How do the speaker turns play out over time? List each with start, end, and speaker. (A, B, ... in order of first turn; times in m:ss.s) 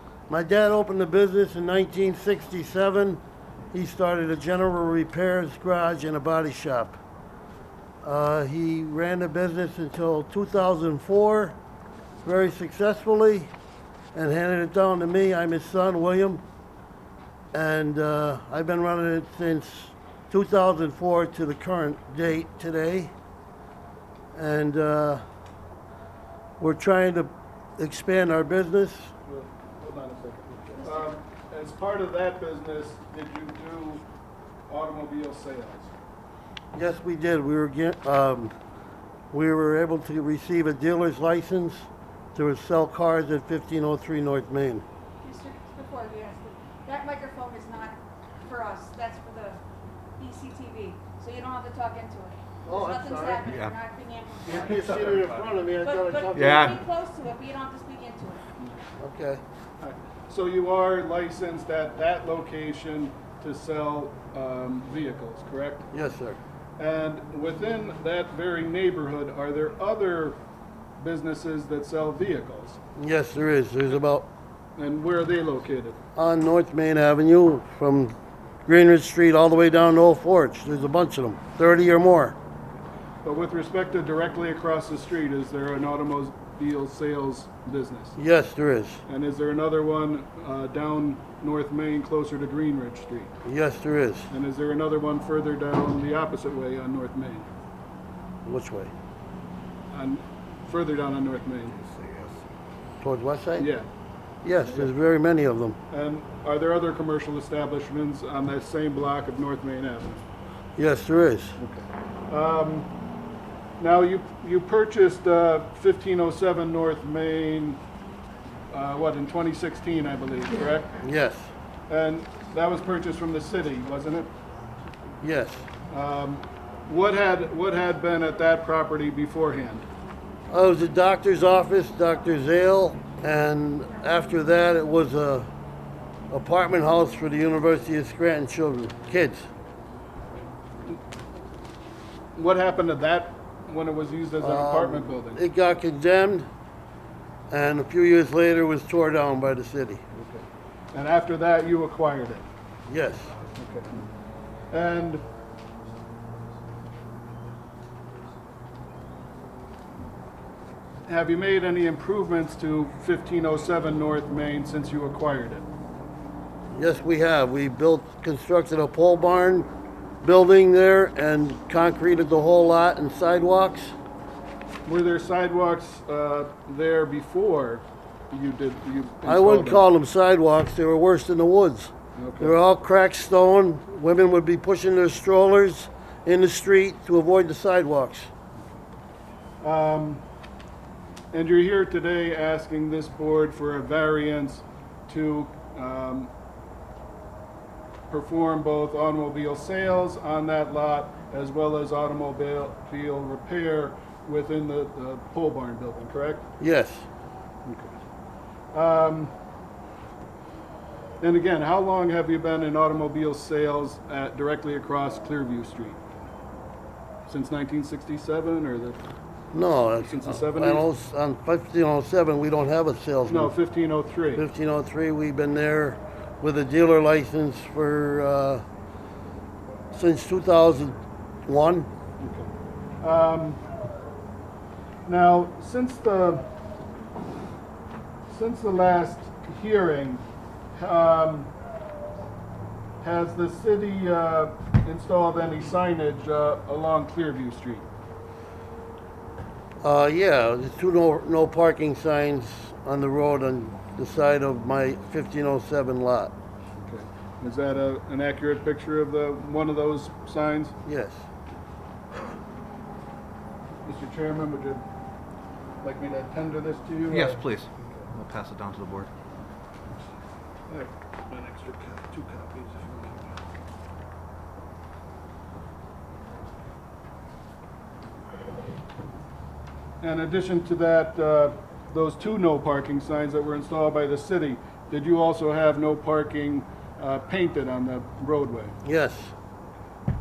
0:00.3-0:03.2 A
0:03.7-0:07.0 A
0:08.0-0:11.6 A
0:12.2-0:13.5 A
0:14.1-0:16.4 A
0:17.5-0:23.1 A
0:24.3-0:25.2 A
0:26.6-0:29.1 A
0:29.2-0:34.0 B
0:34.7-0:35.9 B
0:36.7-0:38.5 A
0:39.3-0:44.8 A
0:45.2-0:49.6 C
0:50.2-0:55.1 C
0:52.6-0:53.4 A
0:53.4-0:53.7 D
0:54.4-0:56.7 A
0:55.8-0:58.4 C
0:56.3-0:56.8 D
0:59.0-0:59.4 A
0:59.8-1:05.9 B
1:05.9-1:06.4 A
1:06.8-1:10.4 B
1:11.0-1:12.8 B
1:13.0-1:14.3 A
1:14.8-1:16.0 B
1:16.2-1:18.1 A
1:18.6-1:22.4 A
1:23.2-1:28.2 B
1:28.2-1:29.0 A
1:29.1-1:33.3 B
1:33.4-1:34.3 A
1:34.3-1:37.5 B
1:38.4-1:38.9 A
1:39.9-1:42.3 B
1:43.0-1:43.7 A
1:43.6-1:43.9 B
1:44.4-1:45.8 A
1:44.6-1:44.9 B
1:45.9-1:50.2 B
1:50.8-1:51.6 A
1:51.6-1:52.9 B
1:53.8-1:57.8 B
1:58.7-2:00.9 B
2:01.0-2:01.5 A
2:01.9-2:04.3 B
2:05.2-2:05.6 A
2:05.9-2:09.9 B
2:10.5-2:15.5 A
2:16.3-2:19.5 A
2:22.4-2:25.4 B
2:24.4-2:26.5 A
2:27.5-2:30.0 A
2:30.1-2:32.5 B
2:32.9-2:33.3 A
2:33.6-2:34.0 B
2:34.7-2:35.2 B
2:41.0-2:45.6 B
2:46.7-2:49.7 A
2:50.2-2:53.9 A
2:54.8-2:59.8 B
2:59.2-3:08.3 A
3:02.2-3:02.6 B
3:09.6-3:10.2 B
3:11.3-3:16.3 B
3:18.1-3:26.4 B
3:26.6-3:27.0 A
3:27.6-3:27.9 B
3:28.7-3:29.3 B
3:31.2-3:36.0 B
3:37.3-3:39.0 B
3:39.5-3:43.5 A
3:40.0-3:40.9 B
3:43.3-3:44.4 B
3:44.3-3:48.6 A
3:49.9-3:51.9 A
3:52.2-3:53.6 B
3:55.0-3:56.4 B
3:58.3-4:00.2 B
4:00.7-4:01.5 B
4:03.0-4:07.8 B
4:09.8-4:16.3 A
4:16.8-4:20.7 B
4:20.8-4:21.2 A
4:23.8-4:24.8 B
4:25.8-4:28.0 B
4:27.1-4:29.1 D
4:30.7-4:33.3 B
4:40.0-4:48.8 B
4:48.8-4:49.3 A